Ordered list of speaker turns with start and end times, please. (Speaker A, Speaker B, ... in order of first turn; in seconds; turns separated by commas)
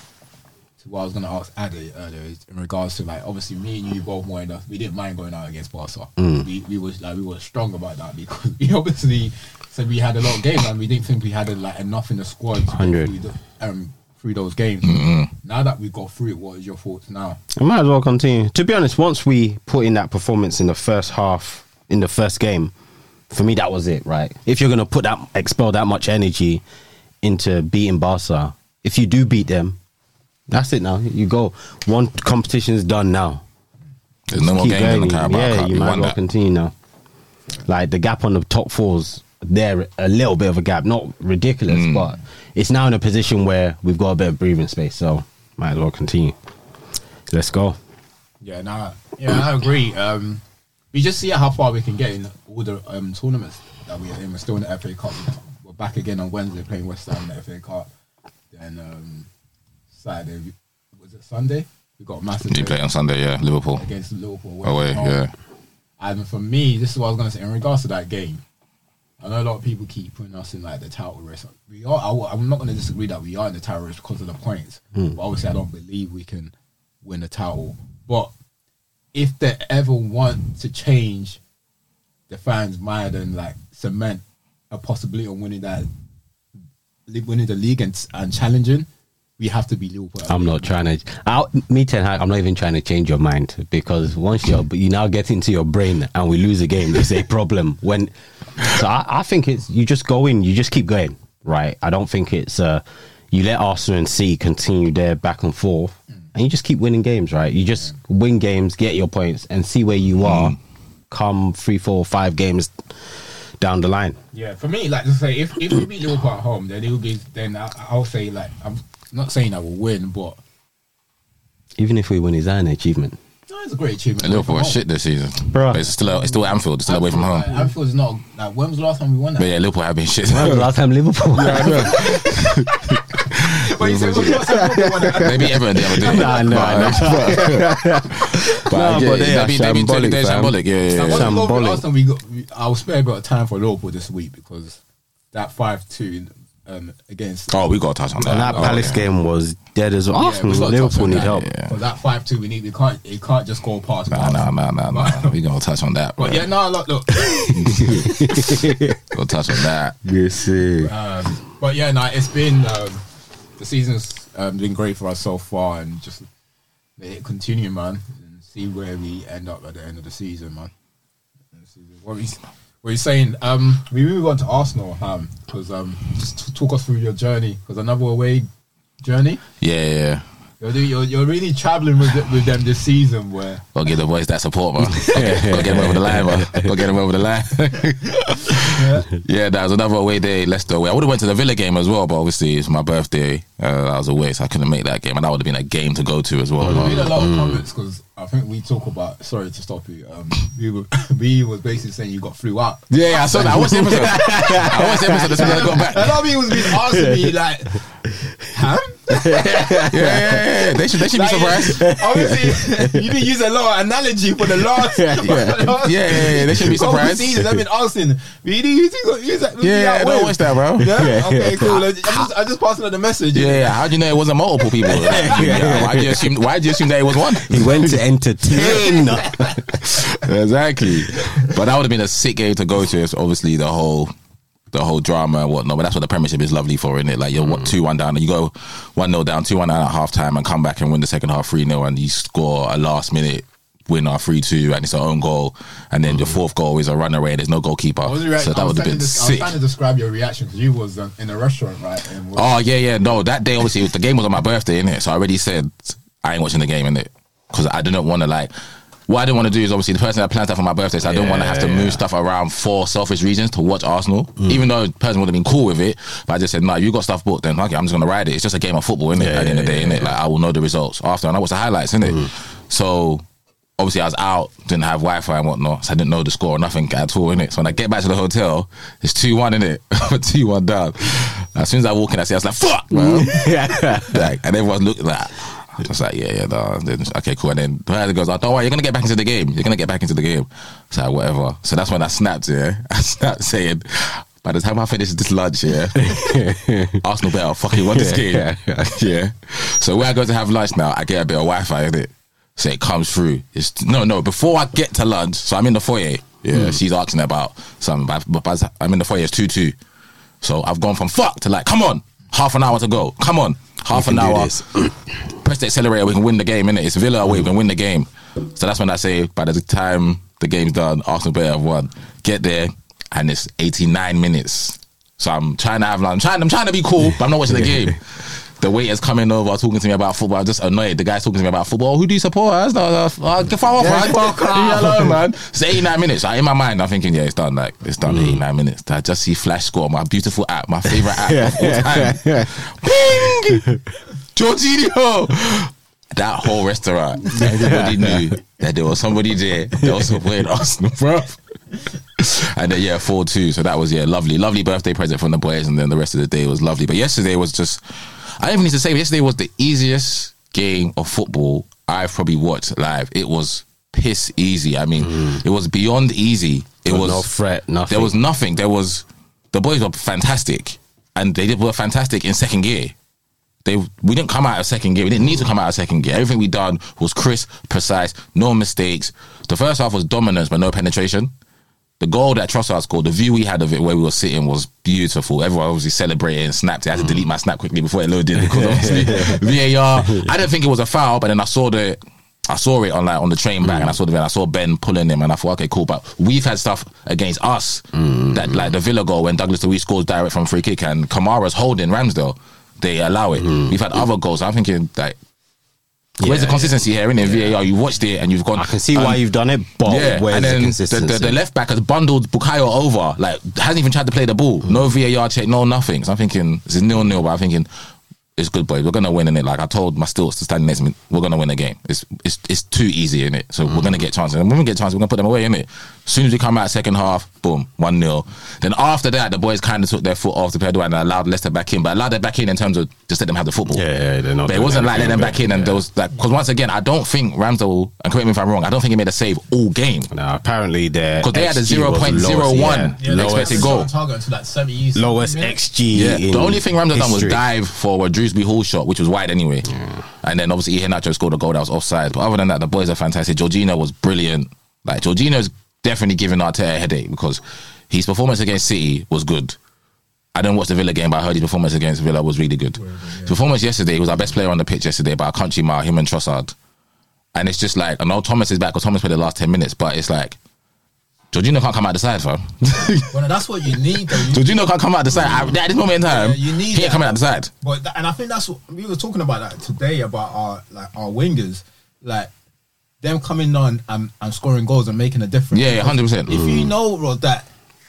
Speaker A: 0.8-17.4, Speaker B: 6.2-6.5, Speaker B: 12.7-13.1, Speaker C: 14.8-15.3, Speaker B: 17.6-22.7, Speaker B: 23.3-26.6, Speaker B: 27.2-29.8, Speaker B: 30.5-33.4, Speaker C: 34.3-36.2, Speaker B: 34.3-36.7, Speaker B: 37.6-46.4, Speaker C: 41.7-42.1, Speaker B: 47.3-47.8, Speaker A: 48.4-57.9, Speaker A: 58.5-59.3, Speaker A: 59.9-62.8, Speaker C: 62.5-63.9, Speaker A: 63.8-65.2, Speaker C: 64.6-65.3, Speaker A: 66.0-68.4, Speaker A: 69.2-78.3, Speaker A: 79.1-81.4, Speaker A: 82.3-85.9, Speaker A: 87.1-88.9, Speaker A: 89.4-90.8, Speaker B: 90.3-110.6, Speaker C: 110.2-110.6, Speaker B: 111.1-112.8, Speaker B: 113.6-114.2, Speaker A: 114.3-120.4, Speaker B: 121.8-123.2, Speaker A: 123.5-124.8, Speaker C: 124.2-127.5, Speaker B: 125.5-125.9, Speaker A: 126.8-129.5, Speaker C: 129.4-130.7, Speaker B: 130.2-132.3, Speaker C: 131.3-133.2, Speaker A: 131.5-138.4, Speaker B: 133.5-141.8, Speaker C: 135.2-141.4, Speaker A: 140.9-144.8, Speaker A: 145.3-147.6, Speaker C: 147.5-149.0, Speaker A: 148.2-148.9, Speaker B: 148.2-151.5, Speaker A: 150.1-155.4, Speaker C: 151.0-151.8, Speaker C: 154.1-156.5, Speaker A: 156.2-158.6, Speaker C: 157.5-160.0, Speaker B: 157.7-160.9, Speaker A: 160.8-163.0, Speaker A: 163.6-166.3, Speaker A: 167.0-170.7, Speaker A: 171.6-178.5, Speaker A: 179.0-179.4, Speaker C: 179.6-180.2, Speaker A: 180.6-183.6, Speaker C: 183.8-197.2, Speaker B: 184.8-186.8, Speaker A: 185.2-185.8, Speaker A: 188.4-189.1, Speaker B: 196.6-197.6, Speaker A: 196.7-210.4, Speaker C: 202.9-206.2, Speaker B: 203.5-205.9, Speaker B: 206.5-207.4, Speaker B: 209.1-210.5, Speaker C: 209.9-211.9, Speaker A: 211.0-223.8, Speaker B: 211.8-213.0, Speaker B: 214.6-215.7, Speaker C: 215.7-217.4, Speaker B: 216.3-216.7, Speaker C: 219.6-221.0, Speaker B: 220.8-221.8, Speaker C: 223.3-228.0, Speaker A: 224.8-225.9, Speaker B: 224.9-226.3, Speaker B: 227.1-230.0, Speaker A: 228.5-229.8, Speaker C: 229.8-234.1, Speaker C: 234.7-249.5, Speaker A: 248.0-252.6, Speaker C: 252.3-258.5, Speaker C: 259.1-273.2, Speaker B: 261.0-262.0, Speaker B: 269.1-270.2, Speaker B: 272.0-272.3, Speaker C: 273.8-296.4, Speaker B: 282.9-284.3, Speaker B: 295.9-297.0, Speaker C: 297.0-309.8, Speaker B: 297.7-299.1, Speaker B: 306.5-306.8, Speaker C: 310.4-314.6, Speaker B: 313.9-314.9, Speaker C: 315.3-343.7, Speaker B: 333.8-335.2, Speaker B: 338.1-338.4, Speaker B: 340.9-342.5, Speaker B: 343.5-343.8, Speaker C: 344.3-351.4, Speaker B: 347.2-348.4, Speaker B: 349.8-350.2, Speaker C: 352.2-357.8, Speaker C: 358.4-367.3, Speaker B: 365.0-365.4, Speaker B: 366.9-368.1, Speaker C: 367.9-372.9, Speaker C: 373.6-381.3, Speaker C: 382.0-405.2, Speaker B: 388.4-390.3, Speaker B: 393.6-394.0, Speaker B: 398.0-398.7, Speaker B: 403.5-403.7, Speaker B: 406.2-407.6, Speaker C: 406.2-409.2, Speaker B: 408.5-411.4, Speaker C: 409.8-417.7, Speaker C: 418.4-433.9, Speaker B: 433.7-435.8, Speaker C: 434.4-440.1, Speaker B: 440.1-443.8, Speaker C: 441.2-443.9, Speaker A: 443.0-445.6, Speaker B: 444.9-447.4, Speaker C: 445.9-449.7, Speaker B: 449.7-450.0, Speaker C: 450.2-459.6, Speaker C: 460.4-466.5, Speaker A: 462.8-463.4, Speaker C: 467.4-470.4, Speaker C: 471.3-473.1, Speaker A: 473.1-474.6, Speaker C: 473.9-477.5, Speaker A: 476.0-482.3, Speaker A: 483.0-487.5, Speaker C: 485.5-486.4, Speaker B: 486.3-486.7